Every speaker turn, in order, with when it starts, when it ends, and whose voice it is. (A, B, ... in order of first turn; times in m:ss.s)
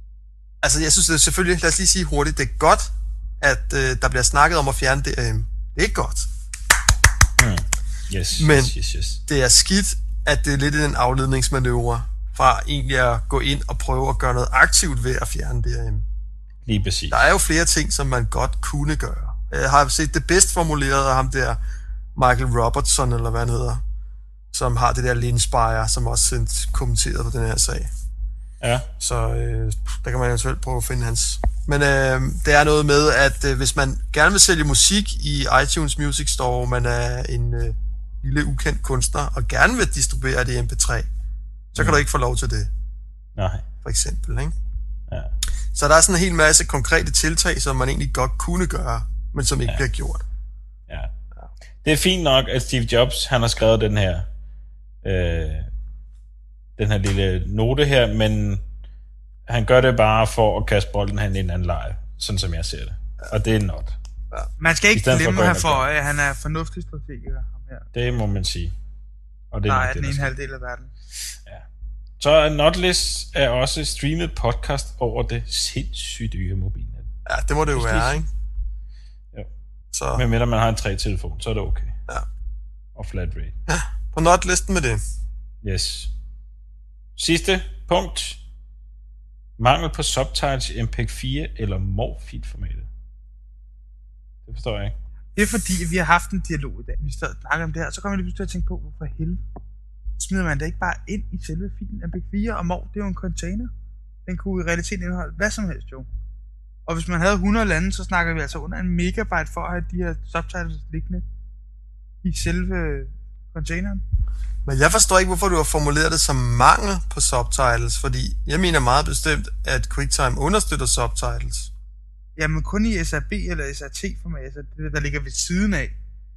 0:00.6-0:06.3 A
0:07.4-0:09.2 B
0:08.4-0:08.7 A
0:09.2-0:16.0 A
0:16.6-0:17.2 B
0:17.1-0:21.6 A
0:22.2-0:23.8 A
0:24.5-0:27.9 A
0:28.6-0:28.9 B
0:29.0-0:41.1 A
0:41.7-0:42.7 A
0:41.8-0:42.0 B
0:43.4-0:43.6 B
0:43.8-0:44.5 A
0:45.1-0:45.3 B
0:45.7-0:50.2 A
0:51.8-0:54.3 B
0:55.0-0:55.7 B
0:56.8-0:58.6 B
0:59.5-1:04.0 B
1:04.6-1:07.8 C
1:04.9-1:05.8 B
1:07.9-1:08.7 B
1:09.5-1:10.3 B
1:09.7-1:10.9 C
1:12.2-1:17.1 B
1:17.2-1:18.2 A
1:17.7-1:18.2 B
1:19.9-1:20.2 A
1:20.1-1:21.9 B
1:22.9-1:23.5 B
1:23.7-1:25.0 A
1:25.6-1:26.1 B
1:27.2-1:28.4 B
1:29.6-1:32.9 B
1:34.4-1:34.9 B
1:35.4-1:39.4 C
1:40.2-1:43.7 C
1:44.2-1:46.0 C
1:46.9-1:51.2 C
1:52.2-1:54.0 C
1:54.6-2:01.7 A
2:02.4-2:06.0 C